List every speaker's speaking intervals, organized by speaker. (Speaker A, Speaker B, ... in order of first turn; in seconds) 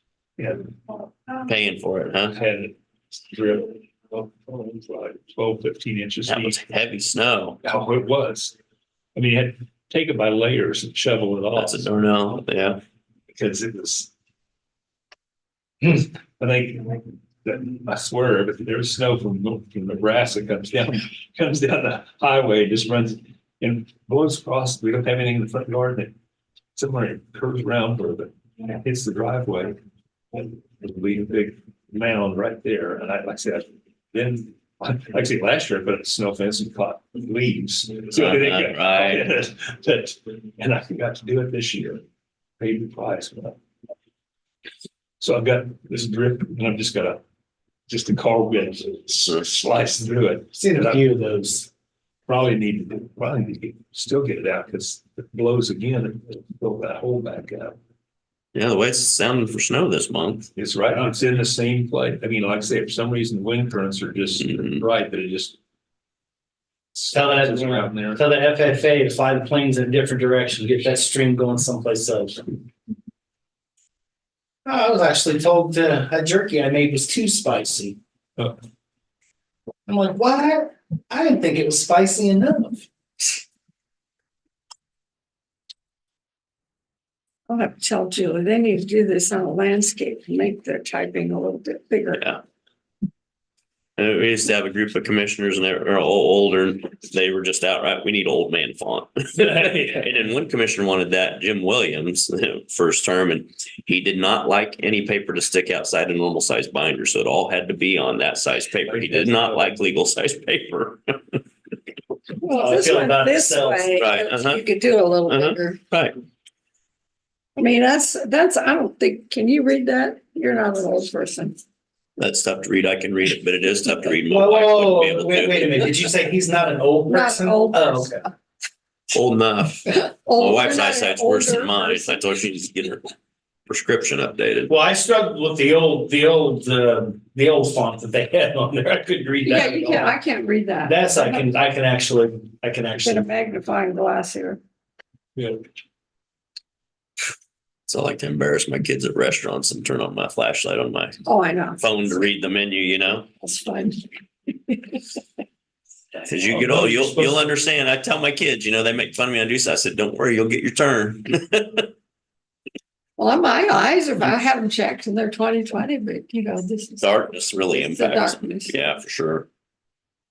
Speaker A: 0.4-1.1, 2.3-6.6, 7.6-8.5, 9.1-11.9, 13.3-14.1, 15.8-26.1, 26.8-29.8, 30.3-42.0, 42.6-43.6, 45.2-47.2, 47.9-51.1, 52.3-57.8, 60.5-65.5, 66.9-68.2, 99.6-99.9, 108.8-109.8, 145.3-145.6, 156.4-157.6
Speaker B: 1.4-2.4, 6.3-7.6, 11.5-12.8, 38.1-39.2, 58.5-60.5, 64.4-64.8, 92.2-92.4, 94.0-111.4, 114.0-114.6, 115.3-116.1, 122.2-126.0, 129.1-133.1, 133.7-134.7, 147.9-151.2, 151.8-153.3, 156.2-161.9, 167.0-169.5
Speaker C: 50.5-51.7, 67.1-72.5, 74.7-78.0, 79.8-82.9, 112.5-113.9, 124.3-128.2, 134.7-140.2, 140.8-143.2
Speaker D: 87.5-92.2, 112.4-115.8, 117.6-121.6, 127.1-128.2, 130.0-132.4, 139.4-141.5, 143.0-144.6, 151.2-151.8, 153.4-154.1, 154.7-155.0, 163.2-168.8